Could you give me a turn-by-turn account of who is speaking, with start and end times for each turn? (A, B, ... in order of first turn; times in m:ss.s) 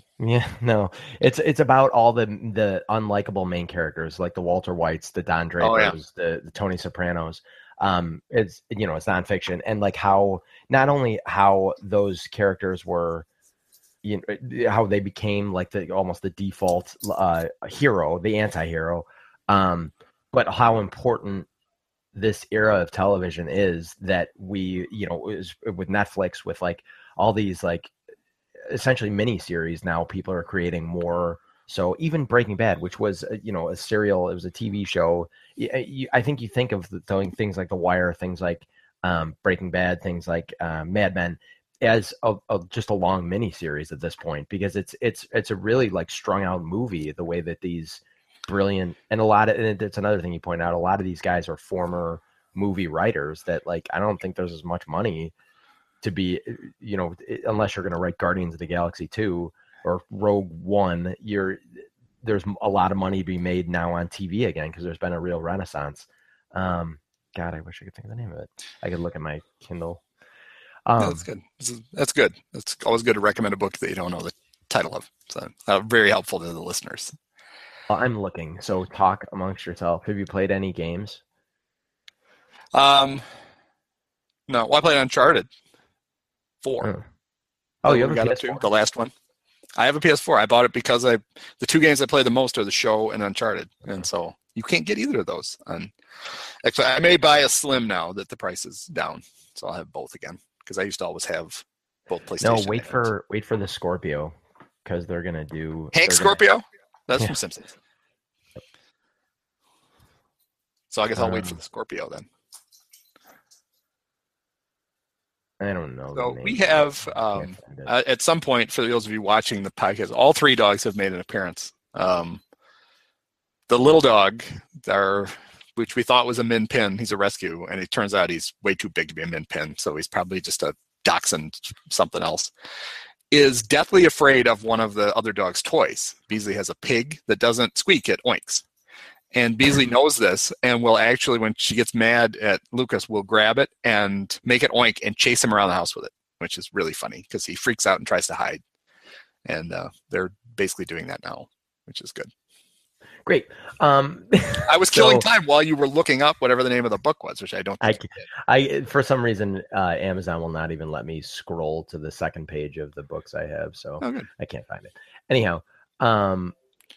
0:00.2-0:13.2 A
0:05.6-0:06.0 B
0:14.0-0:21.5 A
0:22.1-0:27.9 A
0:28.6-0:55.3 A
0:56.0-1:10.0 A
1:10.9-1:11.2 A
1:11.0-1:17.1 B
1:17.9-1:21.2 A
1:22.7-1:23.2 B
1:24.5-1:25.5 B
1:26.6-1:26.9 B
1:27.8-1:28.6 A
1:27.8-1:29.1 B
1:29.8-1:35.9 B
1:36.6-1:43.0 B
1:42.4-1:46.4 A
1:45.9-1:47.7 B
1:50.9-1:52.3 B
1:51.2-1:51.6 A
1:55.6-1:57.9 A
1:56.2-2:02.4 B
2:03.7-2:12.5 B
2:13.3-2:18.6 B
2:19.3-2:28.6 B
2:29.4-2:32.3 B
2:33.2-2:35.3 A
2:34.7-2:38.0 B
2:37.8-2:46.5 A
2:44.0-2:44.3 B